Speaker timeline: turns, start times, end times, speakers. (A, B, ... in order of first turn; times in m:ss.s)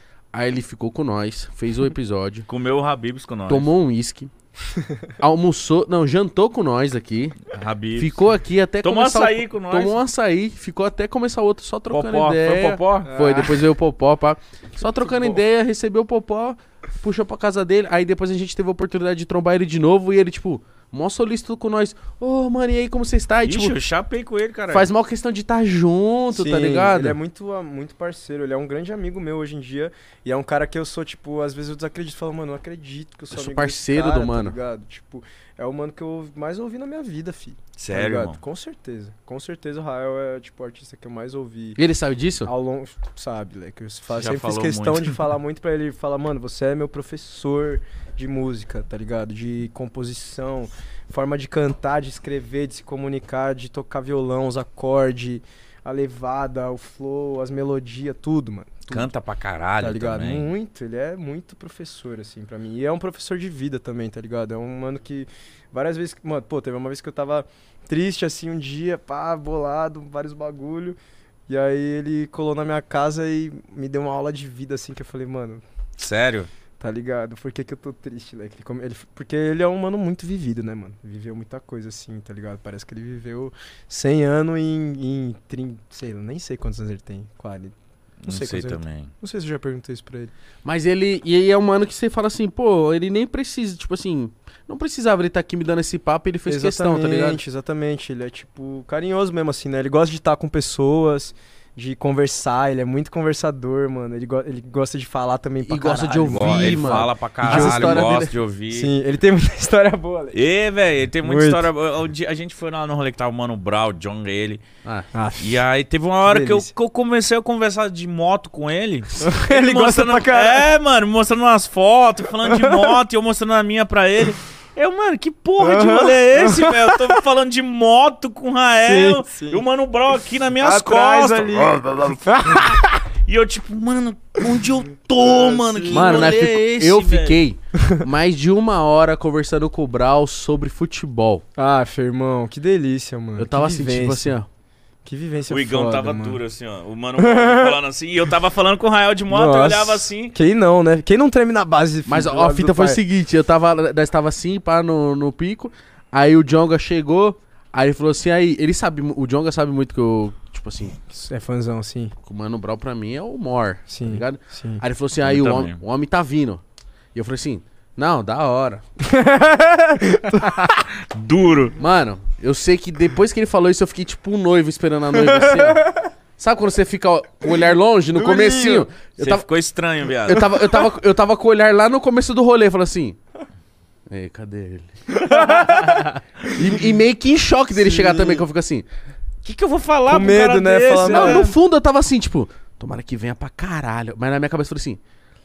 0:00.3-0:02.5 A
0:02.5-0:03.7 B
0:03.5-0:04.3 A
0:05.2-0:07.4 A
0:07.5-0:08.2 B
0:08.0-0:23.8 A
0:08.8-0:10.0 B
0:11.9-0:13.1 B
0:13.0-0:13.6 C
0:14.9-0:15.4 C
0:23.4-0:24.9 B
0:24.7-0:27.2 A
0:26.3-0:41.8 C
0:33.3-0:34.6 A
0:37.8-0:38.4 B
0:41.8-0:42.5 A
0:42.4-0:59.1 C
0:44.1-0:45.2 B
0:58.9-1:00.5 B
0:59.8-1:11.0 C
1:11.5-1:15.6 C
1:16.0-1:16.5 B
1:16.8-1:27.7 C
1:28.2-1:29.1 B
1:28.3-1:30.3 C
1:30.6-1:37.4 A
1:36.4-1:50.4 C
1:45.6-1:48.3 A
1:46.3-1:48.9 B
1:50.3-1:54.6 B
1:51.2-1:51.7 C
1:54.8-1:55.1 A
1:55.1-1:55.6 C
1:55.4-2:12.1 B
1:56.2-1:56.7 C
1:59.2-2:00.7 C
2:02.4-2:03.0 C
2:05.6-2:07.2 C
2:08.8-2:09.6 C
2:10.6-2:12.9 C
2:13.2-2:17.4 B
2:15.2-2:16.4 C
2:15.9-2:21.4 A
2:17.8-2:18.0 C
2:21.6-2:24.4 C
2:23.4-2:24.5 A
2:25.0-2:26.4 C
2:25.5-2:30.3 B
2:27.2-2:27.8 C
2:29.3-2:33.0 C
2:32.0-2:41.0 A
2:41.1-2:42.1 C
2:42.2-2:46.6 A
2:43.9-2:44.8 C
2:45.2-2:45.8 B
2:47.1-2:48.8 A
2:49.0-2:50.8 C
2:50.9-2:51.8 B
2:51.8-2:59.5 A
2:55.2-2:55.8 C
2:58.2-2:58.9 C
2:59.2-3:00.4 B
3:00.2-3:03.2 A
3:00.3-3:00.9 C
3:04.1-3:05.5 A
3:05.1-3:06.1 C
3:05.4-3:06.1 B
3:06.5-3:08.8 A
3:07.7-3:08.4 C
3:09.4-3:11.5 B
3:10.0-3:11.6 C
3:11.0-3:15.0 A